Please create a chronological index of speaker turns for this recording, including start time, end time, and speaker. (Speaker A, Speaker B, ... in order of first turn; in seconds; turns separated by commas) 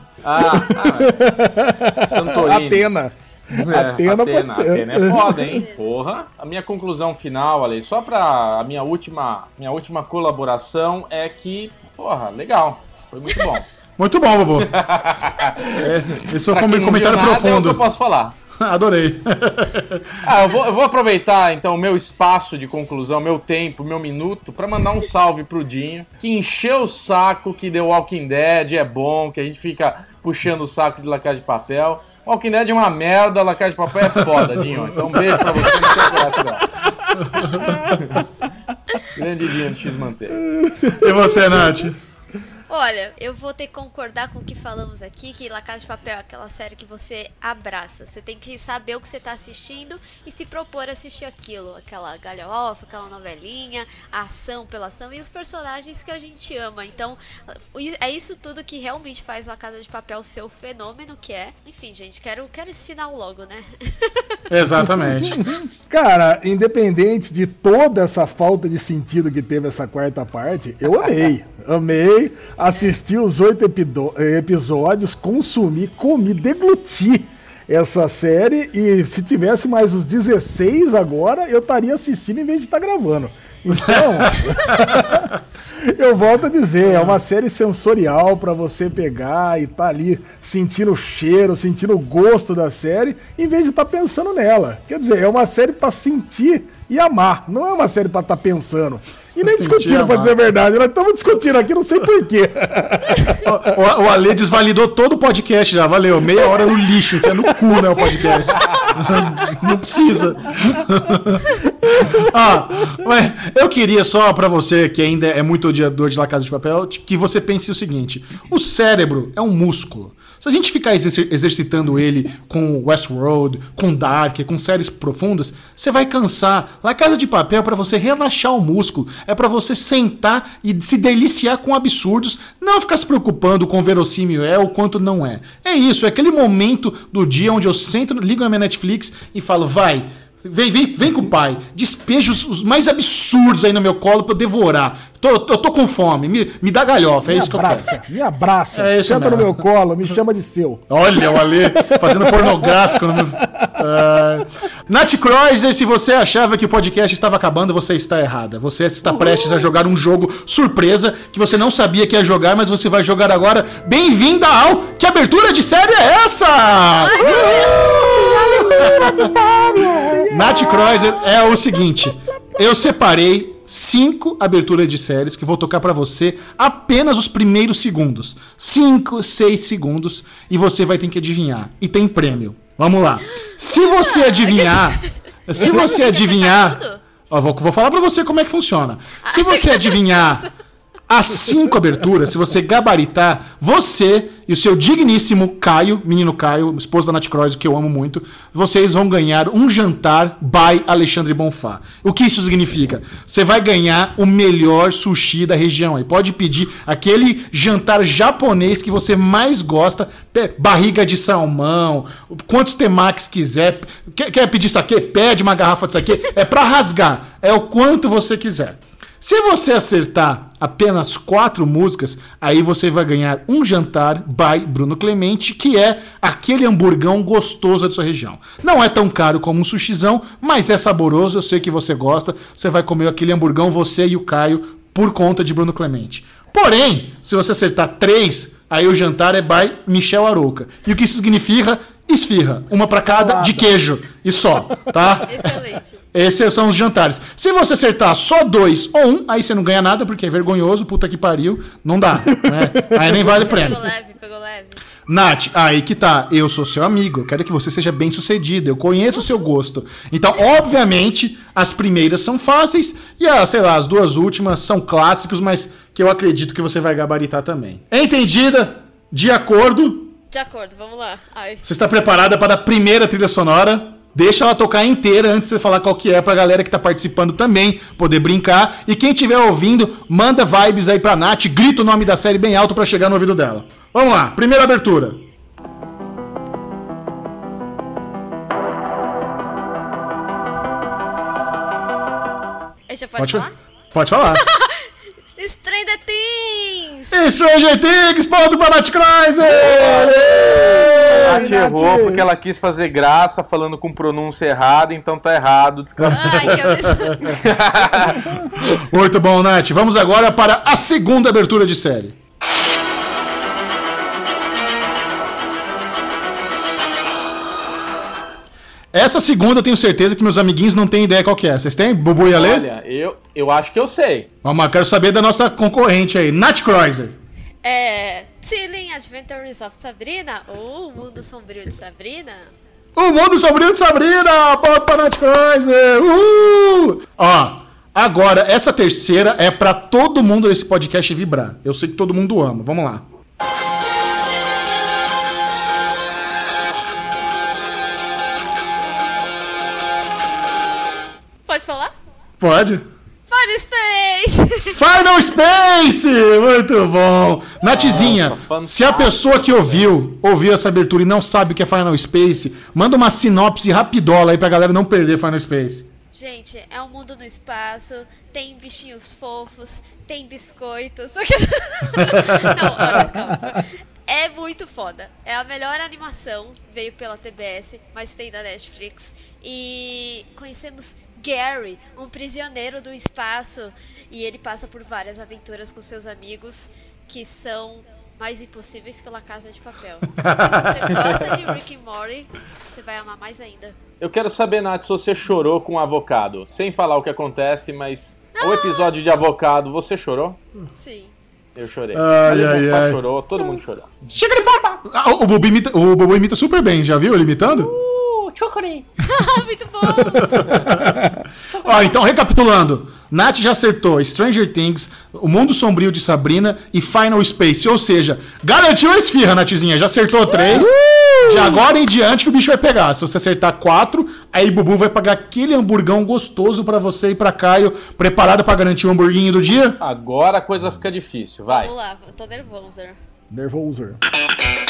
Speaker A: 0.2-1.2, Speaker B: 0.4-5.6, Speaker A: 2.0-2.9, Speaker A: 3.5-13.7, Speaker C: 5.5-5.8, Speaker D: 14.0-14.8, Speaker A: 14.6-18.3, Speaker D: 15.7-17.8, Speaker D: 18.6-20.2, Speaker A: 20.2-36.7, Speaker C: 35.7-36.0, Speaker D: 37.4-37.7, Speaker A: 39.1-40.4, Speaker B: 40.4-41.5, Speaker D: 41.0-42.0, Speaker C: 42.7-64.4, Speaker D: 64.5-65.5, Speaker B: 65.0-103.5, Speaker D: 84.7-85.0, Speaker D: 99.3-100.4, Speaker D: 103.4-111.5, Speaker D: 112.1-147.9, Speaker B: 147.2-153.7, Speaker D: 148.7-149.6, Speaker D: 150.9-169.4, Speaker B: 159.1-159.7, Speaker C: 167.0-168.1, Speaker B: 167.2-171.1, Speaker D: 170.3-190.4, Speaker C: 183.7-187.0, Speaker C: 189.2-190.5, Speaker D: 191.1-245.4, Speaker B: 243.1-243.7, Speaker C: 245.2-246.0, Speaker D: 246.1-253.8, Speaker B: 252.4-253.1, Speaker C: 253.2-254.8, Speaker D: 255.1-270.1, Speaker C: 270.3-271.7, Speaker D: 271.6-285.2, Speaker C: 292.9-293.5, Speaker D: 293.2-294.4, Speaker C: 294.3-297.2, Speaker D: 297.1-301.5, Speaker A: 299.6-308.6, Speaker B: 300.5-302.2, Speaker C: 306.1-307.4, Speaker D: 306.5-307.1, Speaker D: 308.6-312.1, Speaker D: 318.9-322.6, Speaker A: 322.3-324.3, Speaker D: 324.4-327.1, Speaker C: 327.6-332.5, Speaker D: 332.9-343.0, Speaker C: 351.5-351.9, Speaker D: 352.4-352.8, Speaker C: 353.3-354.8, Speaker D: 354.7-365.9, Speaker A: 357.7-359.8, Speaker C: 366.1-393.8, Speaker D: 372.1-372.5, Speaker D: 390.2-390.8, Speaker A: 394.0-400.4, Speaker C: 398.4-398.9, Speaker C: 400.8-401.1, Speaker A: 401.6-403.9, Speaker D: 401.9-403.0, Speaker D: 404.1-407.7, Speaker A: 407.5-408.9, Speaker C: 409.0-410.6, Speaker D: 410.0-429.8, Speaker A: 411.5-411.8, Speaker B: 420.5-421.6, Speaker A: 429.8-431.7, Speaker C: 431.5-433.0, Speaker B: 433.3-434.0